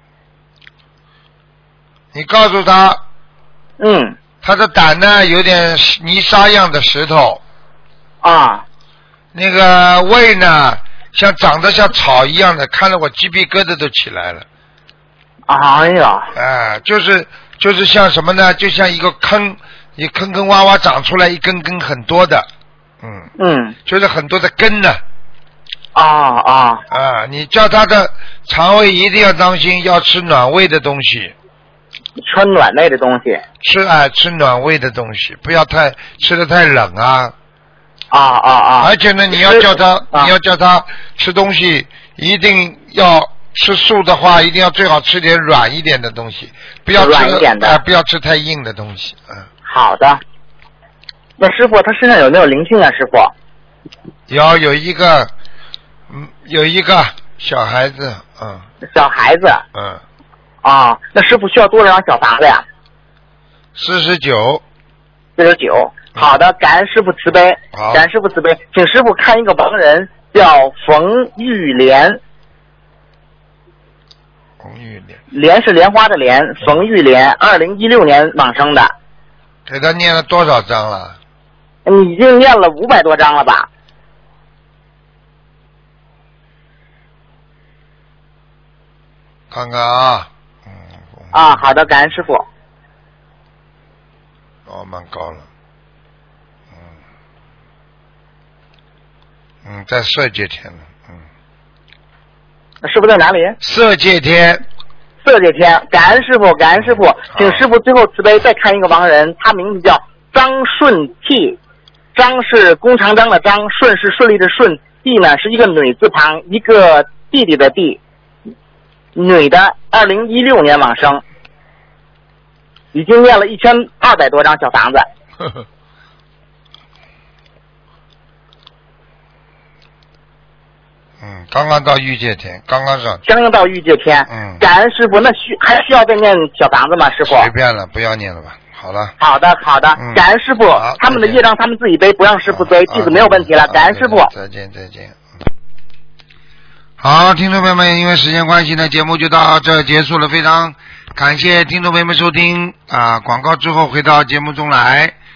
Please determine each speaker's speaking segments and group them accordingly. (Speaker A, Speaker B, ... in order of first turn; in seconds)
Speaker A: 2.1-3.0, 4.4-7.4, 9.3-14.5, 16.3-22.5, 23.0-23.3, 23.9-25.0, 26.9-31.3, 33.6-37.3, 38.8-49.5, 54.3-55.3, 56.1-58.7, 59.7-60.0, 63.8-64.6, 67.7-68.0, 74.6-75.2, 79.7-81.2, 89.5-91.9, 94.7-95.5, 99.7-101.2, 103.6-104.6, 107.3-107.7, 131.2-133.2, 134.3-134.7, 137.3-139.1, 140.0-140.2, 140.8-141.4, 142.5-145.2, 147.0-155.2
Speaker B: 3.8-4.2, 8.2-8.6, 15.5-16.3, 23.4-23.8, 25.9-26.8, 32.2-33.4, 38.1-40.3, 47.0-47.8, 49.7-50.2, 51.4-53.3, 58.9-59.6, 60.6-62.6, 65.4-72.2, 75.3-78.9, 81.8-83.7, 91.3-92.5, 102.8-103.6, 105.2-111.6, 112.2-118.0, 119.2-121.2, 122.9-125.1, 133.2-137.5, 139.2-144.3